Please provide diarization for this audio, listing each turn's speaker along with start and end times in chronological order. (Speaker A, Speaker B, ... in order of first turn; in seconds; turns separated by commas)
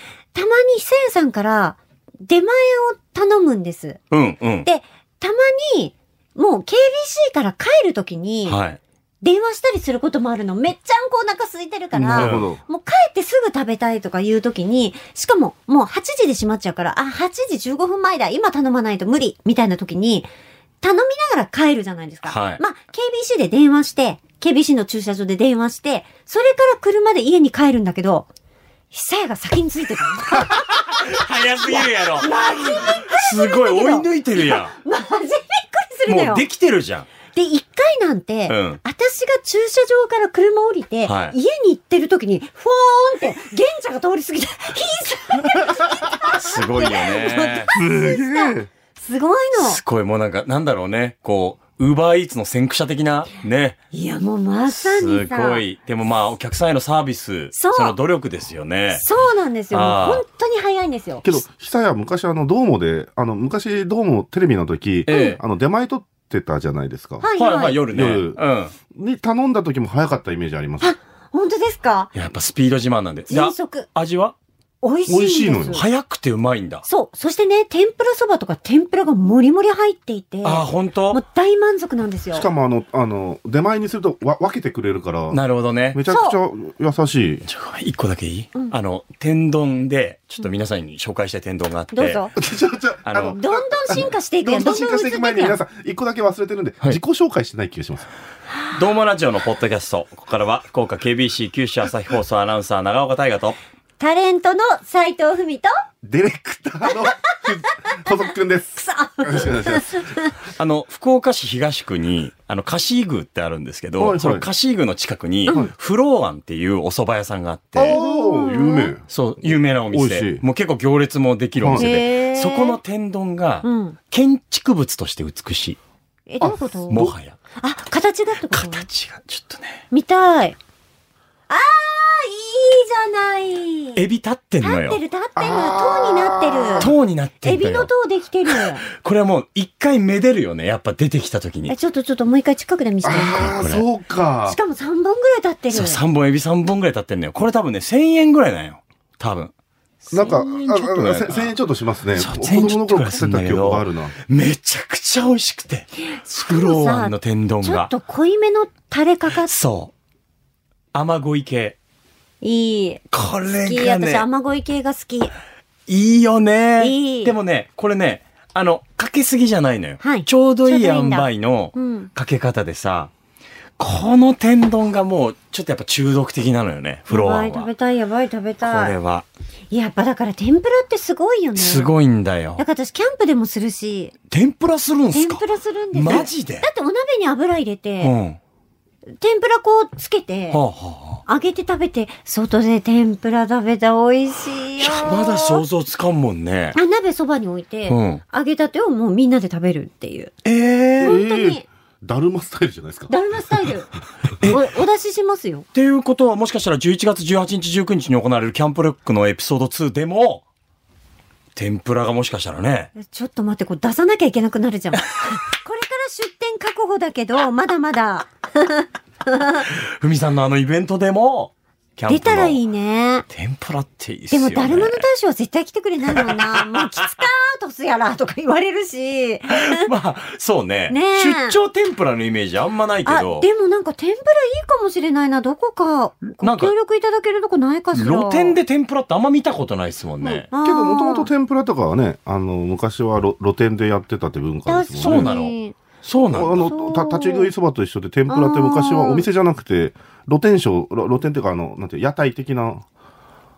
Speaker A: 0.3-4.0, Speaker B: 4.1-4.7, Speaker A: 4.7-8.6, Speaker B: 8.5-8.8, Speaker A: 9.2-20.3, Speaker C: 11.9-12.6, Speaker B: 12.1-12.5, Speaker A: 20.8-28.3, Speaker B: 22.3-22.6, Speaker A: 28.9-31.1, Speaker B: 30.4-34.8, Speaker A: 31.8-36.5, Speaker B: 36.1-37.1, Speaker A: 37.3-49.8, Speaker B: 38.5-38.8, Speaker B: 41.0-41.4, Speaker B: 46.2-47.7, Speaker C: 47.7-48.7, Speaker B: 49.6-53.8, Speaker A: 53.9-55.6, Speaker B: 54.7-59.0, Speaker A: 57.5-58.0, Speaker A: 58.9-61.3, Speaker B: 59.7-60.2, Speaker C: 61.2-67.3, Speaker B: 65.1-65.4, Speaker A: 65.1-65.4, Speaker A: 67.2-67.8, Speaker B: 67.4-68.7, Speaker C: 67.9-68.4, Speaker C: 68.9-70.9, Speaker A: 70.8-72.1, Speaker B: 72.1-74.3, Speaker A: 73.3-73.9, Speaker A: 74.8-75.8, Speaker C: 75.1-75.8, Speaker B: 75.7-76.8, Speaker A: 76.8-82.5, Speaker B: 80.4-81.2, Speaker C: 82.3-85.4, Speaker B: 85.3-86.0, Speaker C: 85.9-87.5, Speaker A: 86.1-86.4, Speaker B: 87.5-92.2, Speaker A: 91.9-92.3, Speaker C: 92.4-98.1, Speaker B: 93.1-93.4, Speaker A: 93.3-95.6, Speaker B: 98.7-103.6, Speaker A: 104.0-105.7, Speaker C: 106.0-110.1, Speaker A: 108.8-110.3, Speaker B: 110.6-118.0, Speaker C: 114.0-114.5, Speaker C: 117.8-120.4, Speaker A: 117.9-118.9, Speaker B: 119.1-125.8, Speaker C: 121.6-121.9, Speaker A: 121.8-122.8, Speaker A: 123.6-124.0, Speaker A: 126.3-128.9, Speaker C: 126.4-127.1, Speaker B: 126.9-127.4, Speaker B: 128.5-129.8, Speaker A: 129.9-130.6, Speaker A: 131.5-134.0, Speaker B: 134.0-135.0, Speaker A: 134.6-136.9, Speaker C: 135.4-136.9, Speaker B: 136.8-137.9, Speaker A: 137.4-138.8, Speaker B: 138.9-141.7, Speaker A: 141.7-143.6, Speaker C: 143.0-144.6, Speaker B: 143.4-143.8, Speaker A: 144.5-146.0, Speaker B: 145.7-149.5, Speaker B: 150.1-151.5, Speaker C: 150.1-154.2, Speaker B: 152.2-157.9, Speaker A: 156.0-159.5, Speaker B: 159.5-159.9, Speaker B: 160.9-161.8, Speaker A: 162.4-165.3, Speaker B: 163.1-164.2, Speaker B: 165.9-173.1, Speaker A: 166.8-167.3, Speaker A: 170.0-172.1, Speaker B: 173.8-177.7, Speaker A: 177.1-178.9, Speaker B: 178.6-179.3, Speaker A: 179.7-181.9, Speaker B: 181.6-182.6, Speaker A: 182.6-184.1, Speaker B: 184.3-186.7, Speaker A: 185.1-188.1, Speaker B: 188.0-188.4, Speaker A: 189.2-190.6, Speaker B: 190.5-191.2, Speaker A: 191.3-195.6, Speaker B: 194.8-196.8, Speaker A: 196.8-200.3, Speaker B: 197.9-198.2, Speaker B: 200.4-201.2, Speaker C: 201.0-203.7, Speaker A: 201.0-201.7, Speaker A: 203.1-203.9, Speaker A: 204.4-205.7, Speaker B: 205.7-210.4, Speaker B: 211.6-212.9, Speaker A: 213.0-219.7, Speaker B: 219.7-222.6, Speaker A: 222.1-223.3, Speaker B: 223.3-225.1, Speaker A: 224.3-229.9, Speaker B: 226.2-226.9, Speaker B: 229.5-233.5, Speaker A: 230.9-231.6, Speaker A: 233.1-238.6, Speaker B: 236.4-236.7, Speaker B: 237.9-240.5, Speaker C: 240.2-245.3, Speaker A: 240.5-241.3, Speaker A: 244.7-245.8, Speaker B: 245.0-246.7, Speaker C: 246.3-252.9, Speaker A: 246.6-247.5, Speaker A: 248.3-249.3